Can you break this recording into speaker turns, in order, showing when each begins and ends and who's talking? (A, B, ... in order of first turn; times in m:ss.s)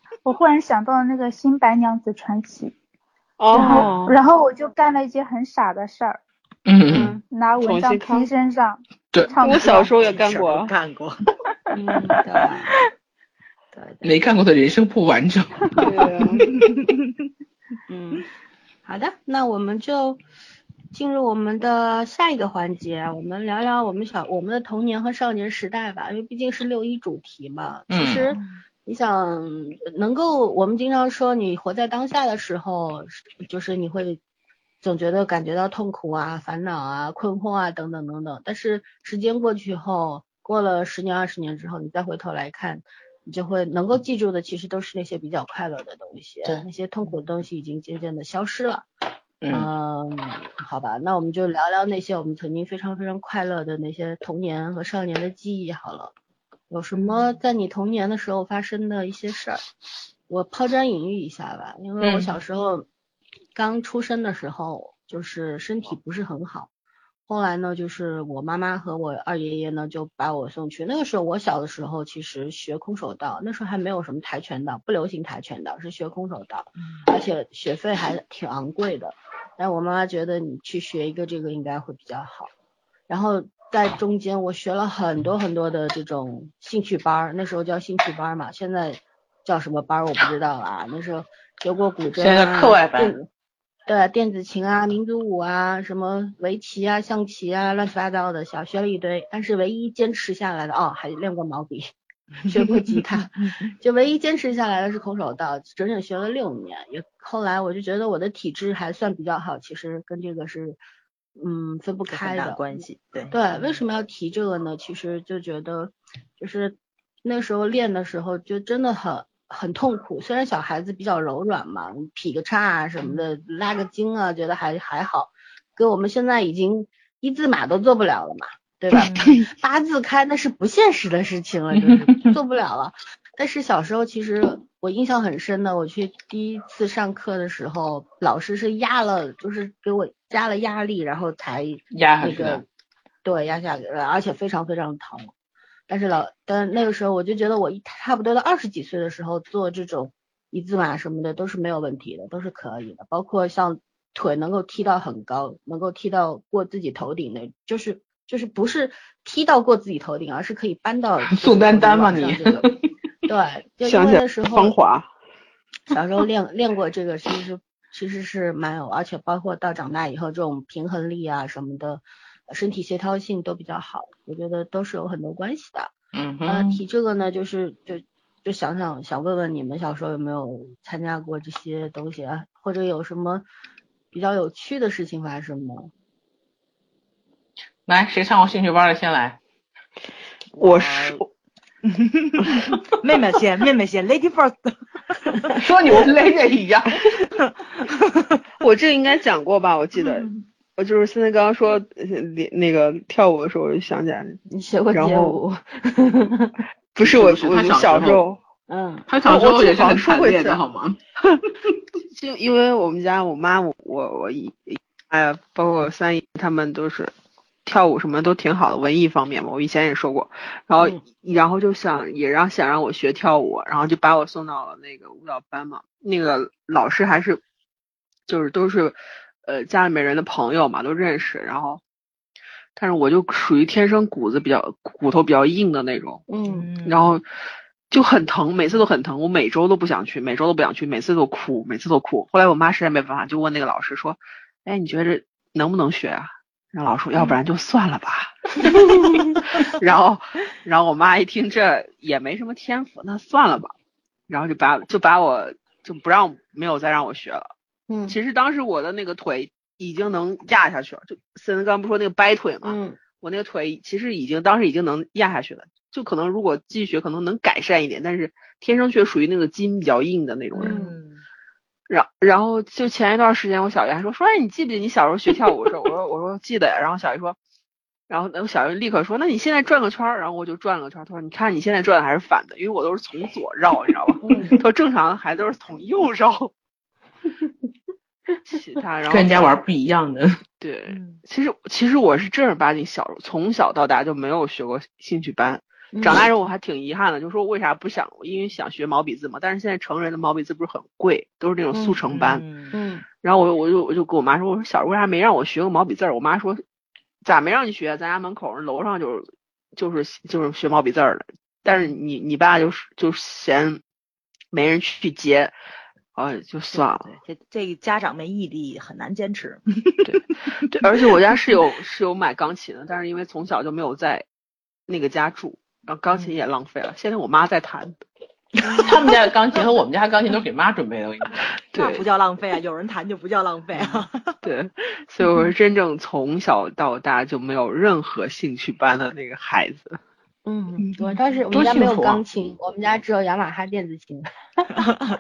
0:00.2-0:02.7 A
0:03.4-0:04.2 B
0:03.5-0:06.2 A
0:03.6-0:03.9 C
0:03.6-0:03.9 D
0:06.7-0:07.2 E
0:06.9-0:07.2 C
0:07.2-0:09.9 A
0:07.6-0:08.3 B
0:09.4-0:10.7 B
0:09.5-0:11.2 D
0:11.7-0:12.8 C
0:13.7-0:14.1 C
0:14.0-0:15.9 E
0:15.8-0:16.5 B
0:17.9-0:18.3 C
0:18.8-0:20.2 C
0:20.9-0:34.2 C
0:27.9-0:28.3 E
0:28.3-0:28.6 D
0:34.8-0:48.9 C
0:49.4-0:49.7 E
0:49.5-0:56.1 C
0:56.7-0:59.6 C
0:56.9-0:57.3 D
1:00.3-1:02.9 C
1:02.0-1:02.4 E
1:03.6-1:06.7 C
1:07.3-1:22.5 C
1:16.8-1:17.0 D
1:23.1-1:33.3 C
1:32.2-1:33.2 E
1:33.9-1:41.9 C
1:42.4-1:50.8 C
1:43.4-1:43.7 D
1:51.4-2:22.6 C
1:52.1-1:53.8 D
2:09.0-2:09.4 D
2:21.9-2:22.6 E
2:23.2-2:25.3 C
2:25.9-2:42.7 C
2:41.3-2:42.8 E
2:43.3-2:44.8 C
2:43.8-2:45.1 B
2:45.9-2:55.9 C
2:56.1-2:56.8 E
2:56.4-3:03.4 C
3:04.1-3:05.9 C
3:07.9-3:09.4 E
3:10.6-3:11.2 D
3:10.6-3:11.3 B
3:11.8-3:15.5 D
3:15.5-3:17.3 E
3:17.3-3:18.4 D
3:18.6-3:24.4 B
3:24.5-3:26.6 C
3:24.9-3:25.4 B
3:27.0-3:28.4 B
3:27.0-3:28.2 E
3:28.7-3:29.1 C
3:29.1-3:31.0 E
3:29.2-3:30.6 B
3:32.1-3:37.1 B
3:37.7-3:47.4 B
3:48.3-3:51.8 B
3:52.8-3:56.2 B
3:56.3-3:56.7 C
3:56.5-3:57.2 D
3:56.8-3:57.2 B
3:57.9-4:08.9 B
4:09.6-4:13.7 B
4:14.3-4:17.5 B
4:17.9-4:18.2 C
4:18.1-4:30.8 B
4:22.6-4:23.0 C
4:30.6-4:31.0 C
4:30.6-4:31.2 D
4:31.9-4:37.4 B
4:38.1-4:46.5 B
4:44.2-4:44.6 C
4:48.5-4:49.6 B
4:49.1-4:50.4 E
4:50.6-5:02.4 B
4:50.9-4:51.2 D
4:55.9-4:56.3 C
5:02.0-5:02.8 D
5:02.7-5:03.0 C
5:03.2-5:06.6 B
5:07.2-5:13.8 B
5:14.5-5:15.5 B
5:16.2-5:17.2 B
5:16.7-5:20.2 D
5:20.0-5:24.2 B
5:24.9-5:28.0 B
5:28.7-5:31.5 E
5:31.7-5:32.0 B
5:31.7-5:34.4 D
5:34.4-5:40.0 B
5:40.5-5:44.7 C
5:40.9-5:41.2 D
5:41.5-5:42.2 E